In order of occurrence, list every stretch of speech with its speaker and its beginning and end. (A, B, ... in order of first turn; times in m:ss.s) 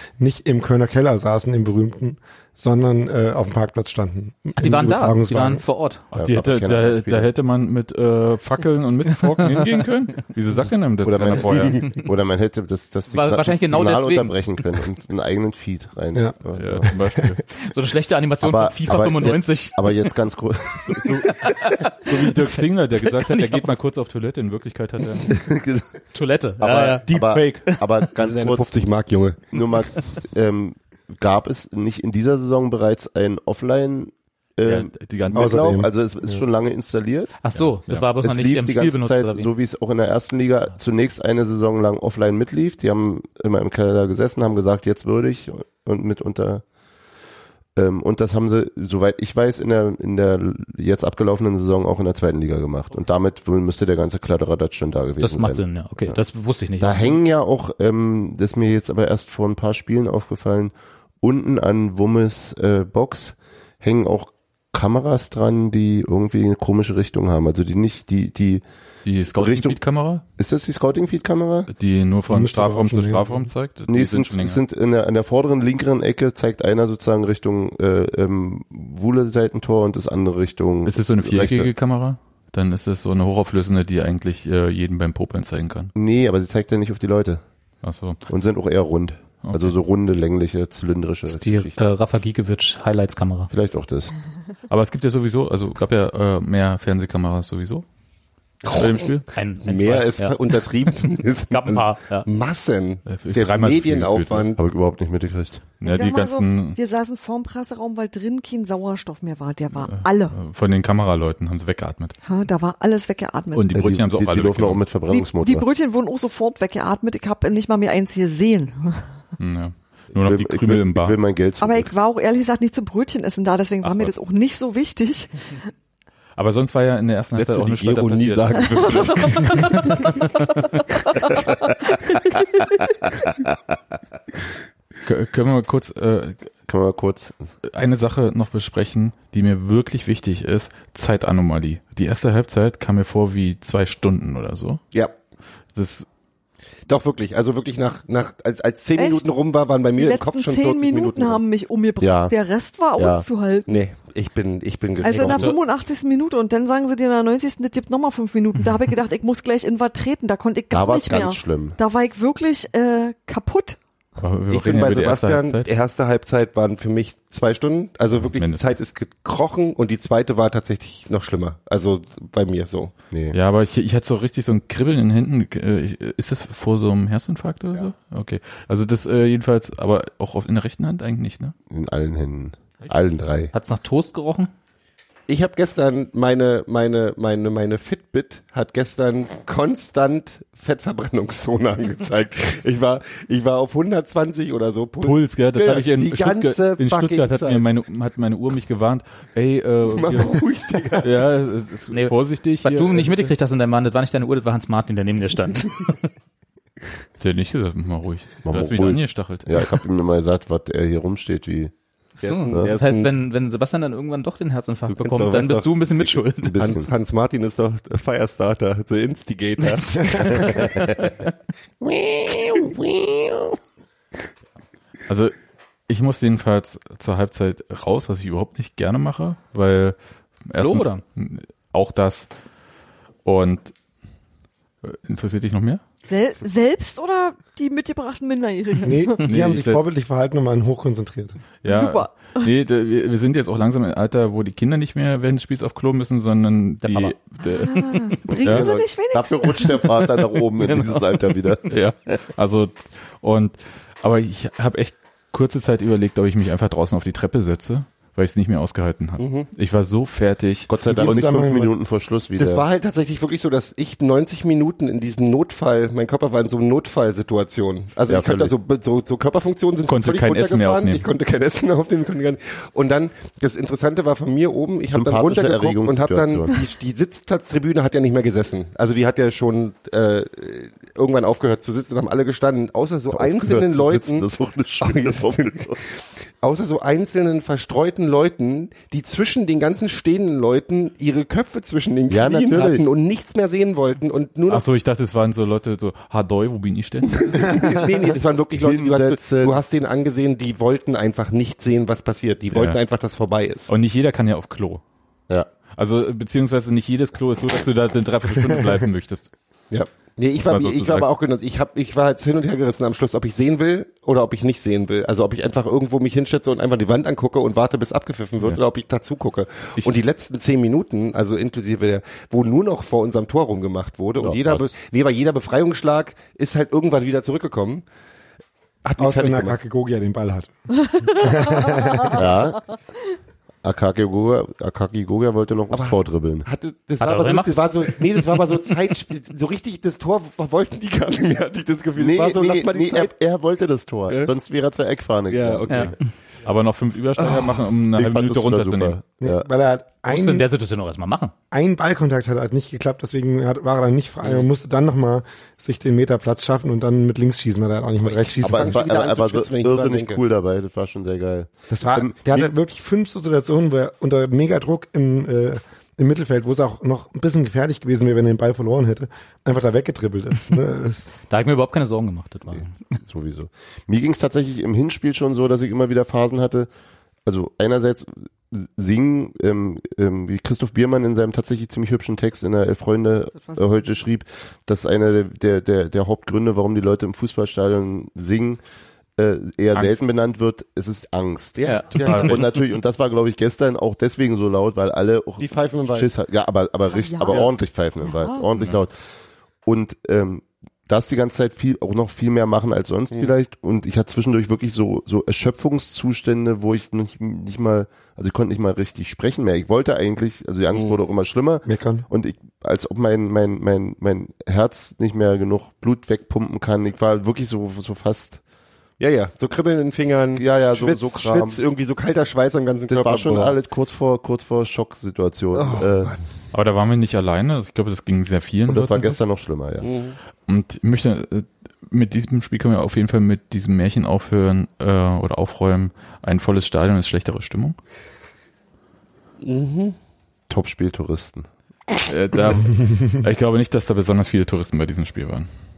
0:00.2-0:05.6 A
0:04.6-0:06.0 B
0:06.1-0:07.3 C
0:06.1-0:11.8 D
0:09.4-0:09.9 B
0:11.0-0:16.9 C
0:13.1-0:14.4 B
0:16.6-0:17.4 D
0:17.5-0:19.9 B
0:18.4-0:21.1 C
0:20.9-0:21.4 D
0:21.2-0:23.7 B
0:21.9-0:25.3 D
0:25.3-0:25.9 C
0:26.1-0:27.8 B
0:26.6-0:28.7 C
0:28.2-0:29.4 E
0:29.5-0:37.4 C
0:34.6-0:35.8 D
0:35.3-0:36.4 A
0:37.4-0:39.5 B
0:37.6-0:38.0 D
0:38.2-0:46.6 C
0:47.8-0:56.2 C
0:55.2-0:57.2 B
0:56.8-1:08.6 C
1:09.0-1:10.2 D
1:09.4-1:09.8 C
1:10.4-1:11.7 C
1:11.7-1:14.6 D
1:12.3-1:13.5 A
1:13.9-1:21.7 C
1:20.9-1:25.9 D
1:26.0-1:27.4 C
1:27.8-1:28.2 D
1:28.3-1:31.8 C
1:29.4-1:29.7 D
1:31.3-1:33.5 B
1:33.5-1:34.1 C
1:34.7-1:37.8 D
1:38.6-1:39.0 E
1:38.7-1:39.3 D
1:39.4-1:40.4 B
1:39.6-1:44.6 E
1:41.5-1:42.3 B
1:43.1-1:44.5 D
1:44.6-1:45.6 C
1:45.8-1:46.8 D
1:45.8-1:50.4 F
1:49.8-1:52.2 D
1:52.2-1:53.8 F
1:53.5-1:54.9 D
1:53.8-1:55.7 C
1:55.1-1:59.1 F
1:59.4-2:01.2 D
2:00.2-2:01.9 C
2:01.6-2:05.6 F
2:03.8-2:04.1 D
2:06.4-2:10.1 D
2:07.3-2:10.2 E
2:08.8-2:09.6 F
2:15.0-2:16.5 D
2:16.7-2:17.5 C
2:17.6-2:24.8 D
2:25.8-2:26.1 D
2:26.9-2:31.4 E
2:29.0-2:29.4 F
2:29.9-2:33.8 F
2:32.0-2:32.3 C
2:33.0-2:33.2 C
2:33.7-2:35.5 E
2:35.0-2:43.8 F
2:35.1-2:35.6 B
2:40.7-2:41.8 C
2:44.2-2:45.7 D
2:44.5-2:52.9 E
2:48.3-2:48.8 D
2:53.1-2:53.4 C
2:53.3-3:01.5 D
3:01.7-3:03.5 C
3:03.5-3:04.5 B
3:05.3-3:17.6 E
3:15.0-3:20.4 D
3:19.8-3:21.1 E
3:21.0-3:23.3 D
3:21.9-3:26.0 B
3:27.2-3:29.5 D
3:28.4-3:31.7 C
3:32.2-3:36.6 B
3:32.2-3:33.1 E
3:34.9-3:35.9 E
3:36.4-3:36.9 C
3:36.6-3:40.7 E
3:39.7-3:41.1 C
3:41.8-3:43.6 C
3:45.1-3:45.4 D
3:45.9-3:50.0 D
3:50.5-3:52.3 D
3:50.6-3:51.0 B
3:53.2-3:53.7 D
3:54.8-3:55.8 D
3:56.0-3:59.2 F
3:58.8-4:01.5 A
3:59.2-3:59.8 D
4:01.6-4:08.7 D
4:01.6-4:02.5 F
4:06.8-4:07.2 B
4:07.5-4:09.8 F
4:08.3-4:11.6 C
4:10.4-4:11.4 B
4:11.7-4:21.2 D
4:19.2-4:19.5 E
4:20.7-4:22.6 C
4:20.9-4:21.7 A
4:21.0-4:21.5 E
4:22.4-4:44.3 E
4:28.1-4:28.5 C
4:29.9-4:31.1 D
4:34.9-4:36.6 C
4:43.1-4:45.8 C
4:44.8-4:54.6 E
4:52.1-4:52.8 C
4:54.5-4:57.4 D
4:57.2-5:03.7 E
4:58.6-4:59.6 C
5:02.5-5:02.8 D
5:03.7-5:04.8 D
5:05.8-5:09.3 D
5:09.7-5:27.8 E
5:10.4-5:11.1 D
5:24.2-5:24.7 C
5:28.8-5:29.6 E
5:29.0-5:30.6 A
5:31.1-5:32.2 A
5:32.1-5:32.6 C
5:33.6-5:36.5 C
5:35.7-5:43.1 E
5:37.0-5:37.9 B
5:42.0-5:45.9 C
5:45.3-5:45.9 E
5:45.7-5:46.1 B
5:46.4-5:49.0 D
5:47.9-5:49.5 C
5:49.2-5:50.5 A
5:50.1-5:51.3 B
5:51.5-5:58.8 A
5:58.1-6:00.2 E
5:58.4-6:02.5 C
6:01.7-6:11.2 A
6:11.3-6:12.8 B
6:12.5-6:16.7 C
6:17.3-6:28.6 C
6:29.2-6:38.9 C
6:31.6-6:32.5 E
6:31.6-6:32.3 B
6:35.4-6:36.1 E
6:36.9-6:37.4 F
6:38.0-6:38.5 F
6:39.6-6:58.4 C
6:51.7-6:52.1 A
6:59.0-7:03.6 E
7:00.4-7:01.6 C
7:02.9-7:06.1 C
7:05.6-7:06.2 E
7:06.5-7:09.2 D
7:08.7-7:09.9 C
7:09.8-7:10.2 E
7:10.5-7:17.8 D
7:19.4-7:20.0 E
7:20.5-7:21.5 C
7:22.1-7:25.5 D